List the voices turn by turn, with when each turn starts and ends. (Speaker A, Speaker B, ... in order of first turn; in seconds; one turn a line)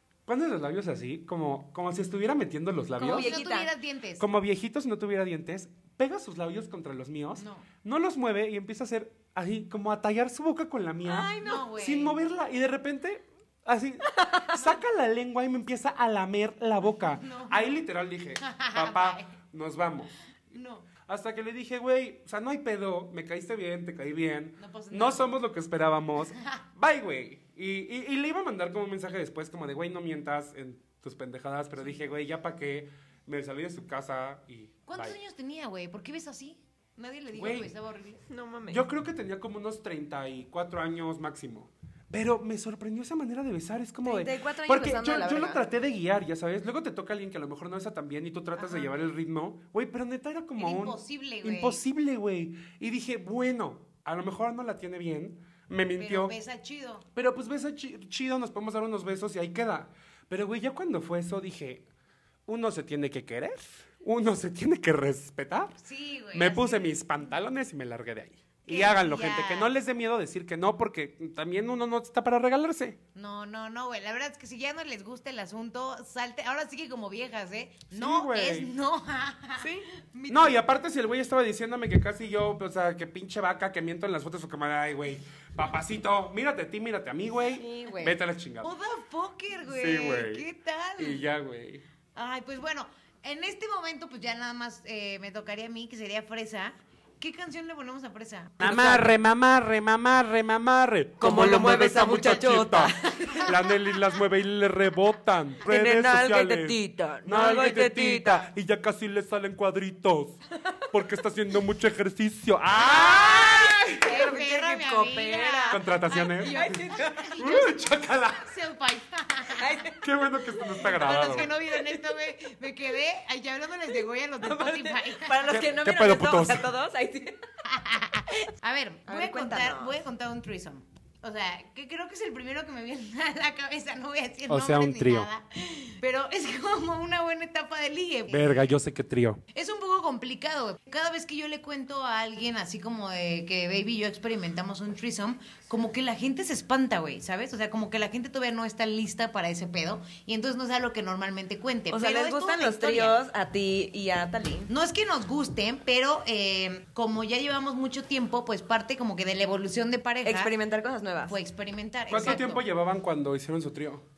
Speaker A: 0.3-3.4
Speaker B: 3.0-3.7
Speaker C: 3.0-4.2
Speaker A: 4.2-20.1
Speaker C: 7.4-7.7
Speaker B: 11.1-11.7
Speaker C: 11.4-12.2
Speaker B: 14.1-14.6
Speaker C: 17.1-17.7
Speaker C: 18.4-19.3
Speaker C: 20.5-20.9
Speaker A: 21.1-35.2
Speaker C: 24.6-25.3
Speaker C: 34.9-38.2
Speaker A: 37.3-37.7
Speaker B: 38.3-38.8
Speaker A: 38.7-56.4
Speaker B: 44.0-45.6
Speaker C: 48.6-48.9
Speaker C: 50.6-51.8
Speaker C: 56.0-57.0
Speaker A: 57.1-61.9
Speaker A: 62.5-65.8
Speaker C: 65.8-67.0
Speaker A: 66.3-73.0
Speaker C: 68.7-69.7
Speaker C: 73.2-80.7
Speaker A: 77.9-78.7
Speaker B: 79.6-79.9
Speaker A: 80.3-88.7
Speaker B: 87.5-88.2
Speaker C: 88.6-91.2
Speaker A: 89.7-90.5
Speaker A: 91.0-91.8
Speaker C: 92.2-98.7
Speaker A: 98.6-110.4
Speaker B: 98.6-99.1
Speaker B: 101.2-103.7
Speaker B: 105.6-108.5
Speaker A: 110.9-114.0
Speaker B: 112.9-117.5
Speaker C: 112.9-117.8
Speaker A: 115.7-118.6
Speaker C: 118.4-119.8
Speaker B: 119.5-120.0
Speaker A: 120.0-121.5
Speaker B: 120.6-122.0
Speaker C: 120.8-125.6
Speaker B: 124.4-127.4
Speaker A: 125.5-126.7
Speaker C: 127.7-138.6
Speaker B: 129.1-129.9
Speaker A: 134.5-135.3
Speaker A: 138.3-139.4
Speaker C: 139.5-153.2
Speaker B: 151.9-154.7
Speaker C: 154.7-160.5
Speaker B: 160.2-161.4
Speaker C: 161.3-162.6
Speaker A: 162.1-164.1